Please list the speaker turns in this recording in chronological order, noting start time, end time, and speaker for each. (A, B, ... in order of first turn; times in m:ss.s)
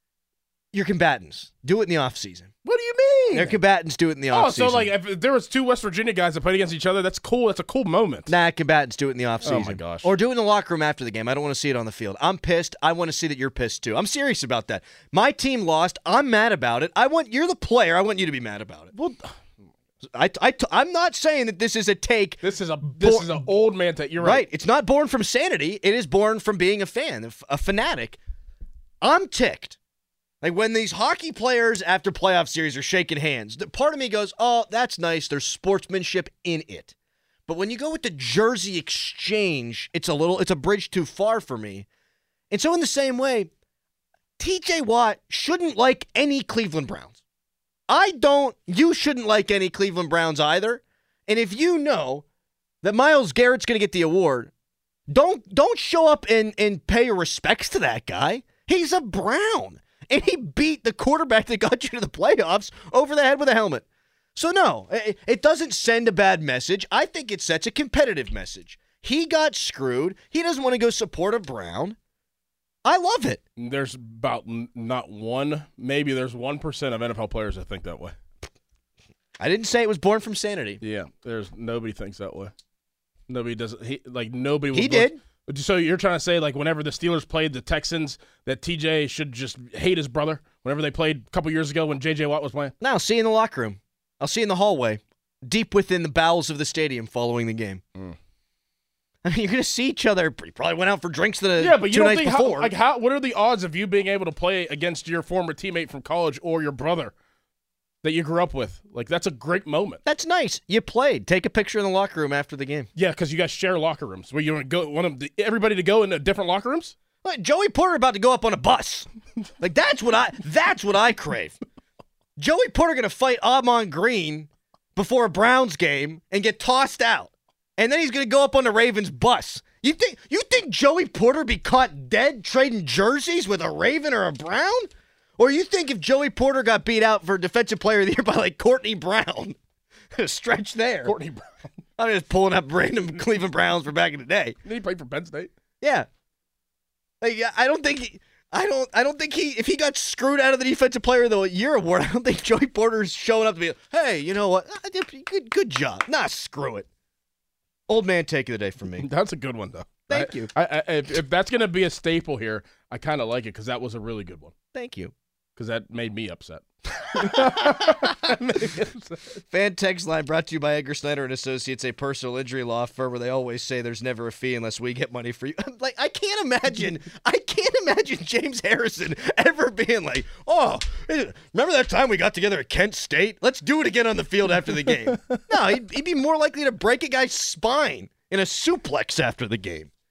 0:00.7-0:02.6 A
0:02.7-0:03.6 B
0:03.3-0:04.9 A
0:04.3-0:08.3 B
0:08.3-0:18.9 A
0:09.4-0:10.1 B
0:19.0-0:19.4 B
0:20.1-0:23.4 A
0:22.4-0:24.4 B
0:24.2-0:28.2 A
0:29.0-0:29.8 A
0:30.4-0:36.9 A
0:37.5-0:41.9 A
0:42.5-0:43.5 A
0:44.4-0:47.2 A
0:47.9-0:52.2 A
0:52.8-0:54.5 A
0:55.1-1:03.8 A
1:04.4-1:12.0 A
1:12.8-1:13.4 A
1:13.6-1:18.2 B
1:19.4-1:20.8 A
1:20.8-1:22.5 B
1:23.3-1:32.7 B
1:24.7-1:25.2 A
1:32.8-1:37.8 A
1:39.2-1:42.7 A
1:41.6-1:47.1 B
1:48.0-1:50.0 B
1:50.0-1:52.9 A
1:53.0-1:57.0 B
1:57.2-1:59.1 A
1:59.6-2:01.6 A
2:02.4-2:19.6 A
2:20.2-2:21.2 A
2:21.1-2:21.5 B
2:22.0-2:24.6 A
2:24.6-2:25.5 B
2:25.8-2:26.1 A
2:27.2-2:36.9 A
2:37.9-2:39.1 A
2:39.0-2:44.5 B
2:40.1-2:40.5 A
2:44.7-2:45.1 A
2:45.6-2:49.4 B
2:49.5-3:09.9 A